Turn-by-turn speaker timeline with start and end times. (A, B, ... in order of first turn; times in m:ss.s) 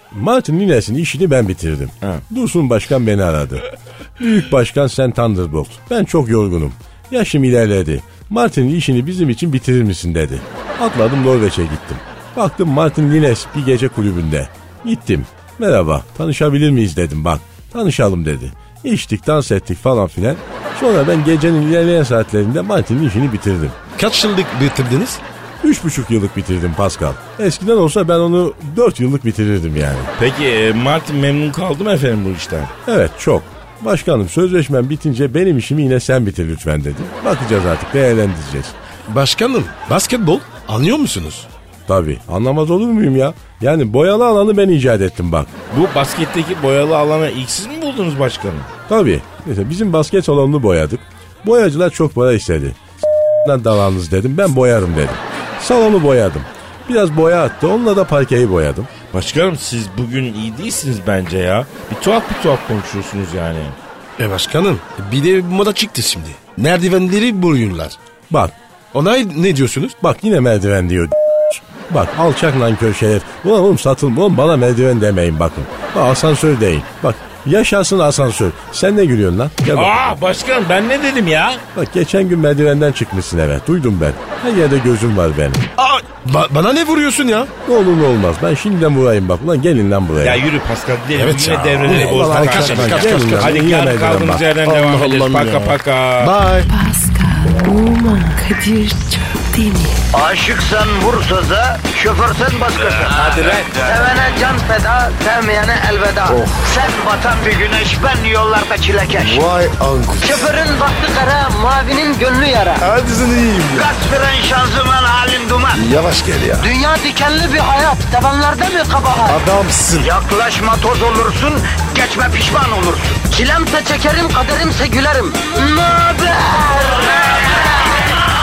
0:00.1-0:03.6 A
0:04.2-0:23.8 A
0:24.0-0:25.2 B
0:25.6-0:30.1 A
0:30.2-0:32.7 C
0:32.9-0:38.8 A
0:39.1-0:41.5 B
0:41.9-0:45.5 A
0:45.7-0:48.7 C
0:48.9-0:52.8 A
0:53.4-0:58.9 A
0:59.1-1:03.8 C
1:04.2-1:08.0 B
1:08.9-1:10.0 B
1:10.0-1:20.2 A
1:19.7-1:21.6 C
1:21.8-1:25.7 A
1:25.8-1:27.5 B
1:27.7-1:30.4 A
1:30.2-1:36.4 C
1:31.1-1:33.6 B
1:31.9-1:34.5 A
1:34.6-1:36.7 B
1:36.7-1:40.0 D
1:40.1-1:49.5 E
1:46.3-1:46.7 B
1:49.2-1:50.5 B
1:50.2-1:52.9 E
1:52.8-1:53.9 B
1:53.7-1:55.8 E
1:55.7-1:56.7 B
1:56.6-1:59.4 E
1:59.3-2:00.1 B
2:00.0-2:08.0 E